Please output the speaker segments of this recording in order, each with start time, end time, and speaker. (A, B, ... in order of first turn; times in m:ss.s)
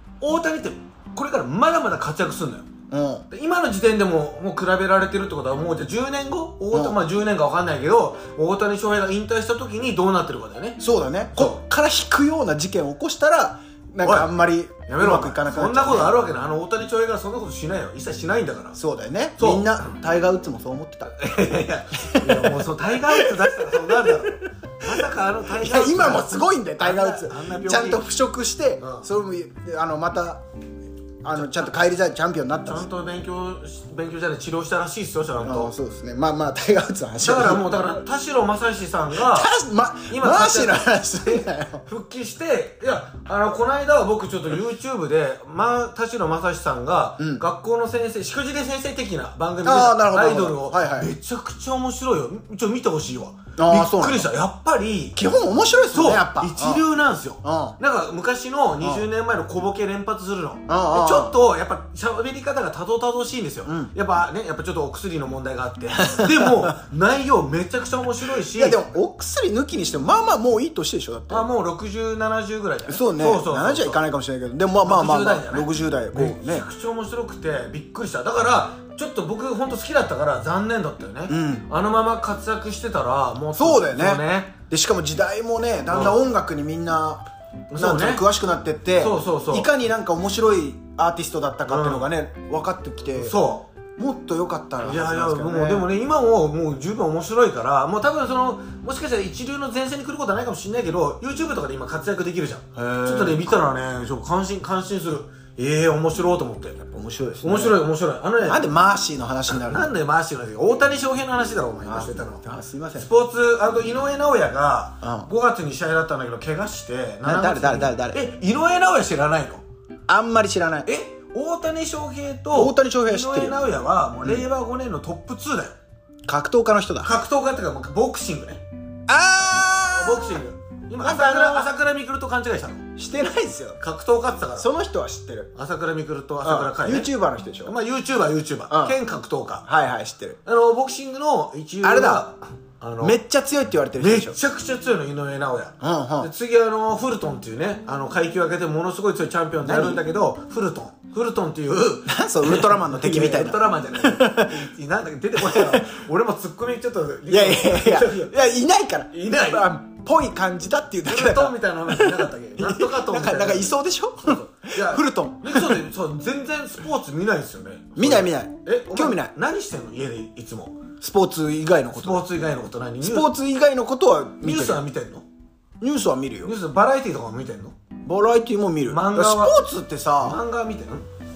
0:00.2-0:02.7 A
0:02.9-0:03.2 B
0:03.3-0:10.8 A
0:06.7-0:07.0 B
0:10.8-0:16.2 B
0:11.3-0:11.6 A
0:14.0-0:14.3 A
0:14.9-0:18.8 A
0:18.8-0:21.1 B
0:19.4-0:20.0 A
0:21.1-0:28.1 A
0:22.1-0:24.3 B
0:24.9-0:30.4 B
0:28.8-0:29.1 A
0:31.2-0:32.9 B
0:31.3-0:31.8 A
0:32.7-0:35.7 A
0:35.4-0:37.8 B
0:37.2-0:39.5 A
0:39.1-0:41.8 B
0:40.1-0:55.2 A
0:47.2-0:47.4 B
0:49.6-0:51.1 B
0:53.6-0:54.3 B
0:55.2-0:56.8 B
0:55.9-1:08.8 A
0:57.4-0:57.8 B
0:58.8-0:59.1 B
1:00.7-1:01.3 B
1:03.6-1:03.9 B
1:06.0-1:06.7 B
1:08.4-1:11.5 B
1:11.3-1:14.0 A
1:12.8-1:16.7 B
1:14.8-1:24.5 A
1:21.3-1:21.7 B
1:23.5-1:27.2 B
1:25.9-1:26.2 A
1:27.7-1:28.2 A
1:27.8-1:33.4 B
1:29.0-1:29.7 A
1:31.7-1:32.1 A
1:33.1-1:33.7 A
1:34.0-1:35.9 B
1:34.8-1:46.9 A
1:42.7-1:43.5 B
1:46.9-1:47.8 B
1:47.4-1:48.6 A
1:48.4-1:49.9 B
1:49.5-1:52.4 A
1:51.8-1:53.1 B
1:53.0-1:59.6 A
1:55.0-1:55.3 B
1:57.2-1:58.2 B
2:00.1-2:00.9 B
2:00.8-2:05.8 A
2:02.5-2:03.6 B
2:06.3-2:07.2 B
2:07.0-2:08.6 A
2:09.1-2:10.4 B
2:09.9-2:12.8 A
2:11.0-2:11.7 B
2:13.0-2:13.8 B
2:13.8-2:14.7 A
2:14.6-2:15.5 B
2:15.5-2:17.1 A
2:16.4-2:17.7 B
2:17.6-2:19.6 A
2:18.7-2:19.0 B
2:19.7-2:20.4 B
2:20.4-2:23.2 A
2:21.8-2:22.3 B
2:23.0-2:24.4 B
2:24.0-2:38.4 A
2:25.8-2:26.3 B
2:29.6-2:30.0 B
2:32.1-2:34.7 B
2:35.4-2:36.0 B
2:37.3-2:45.8 B
2:39.1-2:39.7 A
2:41.0-2:50.8 A
2:48.0-2:49.3 B
2:51.0-2:52.2 B
2:51.9-2:53.3 A
2:53.0-2:54.8 B
2:54.4-2:55.3 A
2:55.8-2:56.5 B
2:56.4-2:57.7 A
2:58.0-3:00.4 B
2:58.9-2:59.6 A
3:00.2-3:01.0 A